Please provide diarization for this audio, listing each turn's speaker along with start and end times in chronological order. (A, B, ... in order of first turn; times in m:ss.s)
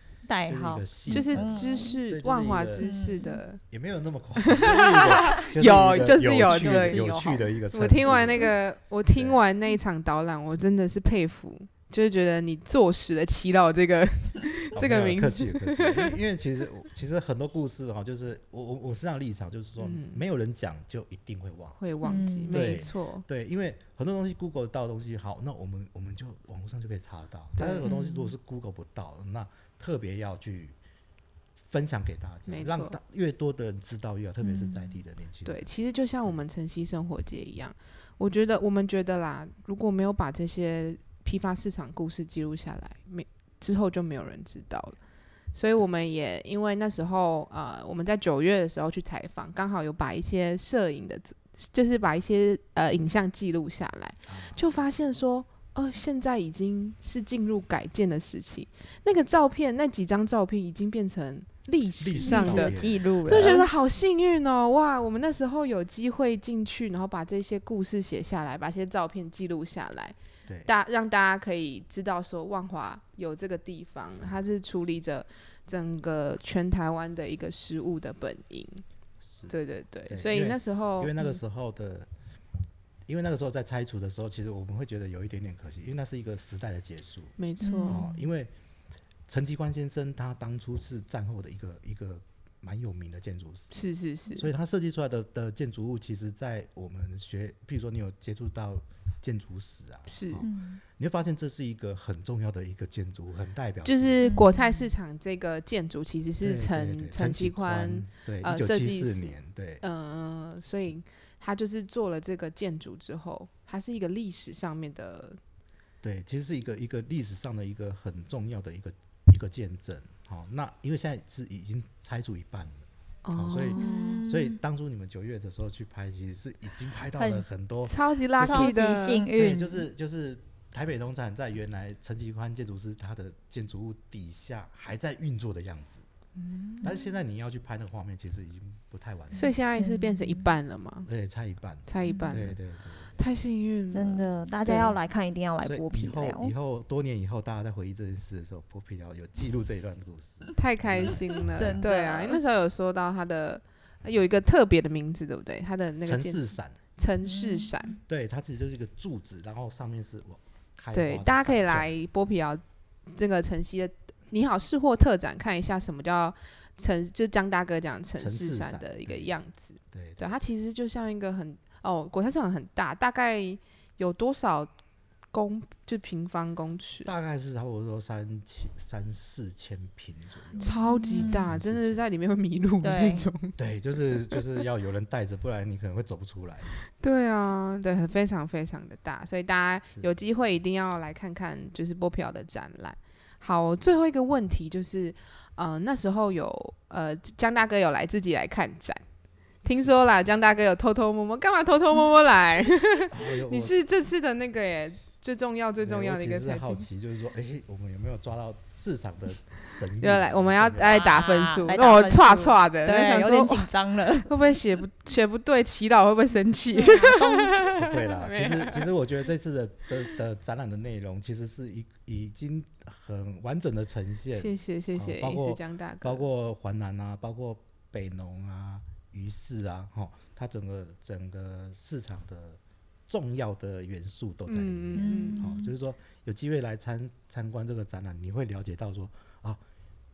0:00.3-0:02.0 A
0:00.4-0:02.9 B
0:01.1-0:03.6 C
0:02.8-0:03.4 A
0:03.7-0:08.5 B
0:04.4-0:07.1 C
0:06.4-0:07.5 A
0:07.7-0:16.2 C
0:09.1-0:09.4 B
0:14.7-0:21.8 B
0:19.8-0:20.2 C
0:21.8-0:23.2 C
0:22.0-0:22.8 A
0:22.5-0:30.8 B
0:27.6-0:28.2 C
0:31.6-0:35.7 B
0:32.5-0:33.0 C
0:35.4-0:45.0 C
0:45.5-1:18.8 C
0:54.3-0:54.6 B
1:02.0-1:03.6 B
1:02.2-1:03.7 A
1:19.2-1:19.5 B
1:19.5-1:21.1 C
1:20.1-1:22.1 B
1:23.1-1:28.5 B
1:27.4-1:28.0 C
1:27.6-1:28.2 A
1:29.3-1:33.8 B
1:33.7-1:34.5 C
1:34.3-1:44.3 B
1:40.1-1:40.4 C
1:40.4-1:40.8 A
1:43.8-1:55.4 C
1:44.2-1:44.9 A
1:46.4-1:49.8 B
1:56.0-2:08.7 B
2:03.2-2:04.2 C
2:03.7-2:04.6 A
2:07.2-2:07.4 A
2:07.9-2:09.3 C
2:08.4-2:09.8 A
2:09.3-2:16.0 B
2:16.4-2:17.0 C
2:16.8-2:19.5 B
2:19.3-2:21.1 C
2:19.3-2:20.5 A
2:21.0-2:23.2 B
2:21.9-2:22.6 C
2:22.0-2:22.4 A
2:23.1-2:24.9 C
2:23.9-2:26.5 A
2:25.6-2:31.8 B
2:30.5-2:38.0 C
2:31.5-2:32.4 A
2:36.0-2:36.8 B
2:37.2-2:37.7 A
2:38.0-2:41.9 B
2:40.9-2:54.7 C
2:48.2-2:49.3 B
2:49.9-2:50.3 B
2:55.3-2:57.1 C
2:57.0-3:02.0 B
3:00.6-3:01.5 A
3:00.6-3:03.6 C
3:02.8-3:03.3 A
3:03.6-3:06.8 B
3:07.0-3:19.0 C
3:19.6-3:26.8 C
3:23.1-3:23.7 B
3:25.8-3:31.1 B
3:30.0-3:33.7 C
3:30.8-3:34.3 A
3:34.2-3:38.9 C
3:36.7-3:37.6 A
3:37.6-3:59.6 B
3:44.4-3:46.2 C
3:54.5-3:55.5 C
3:55.0-3:55.7 A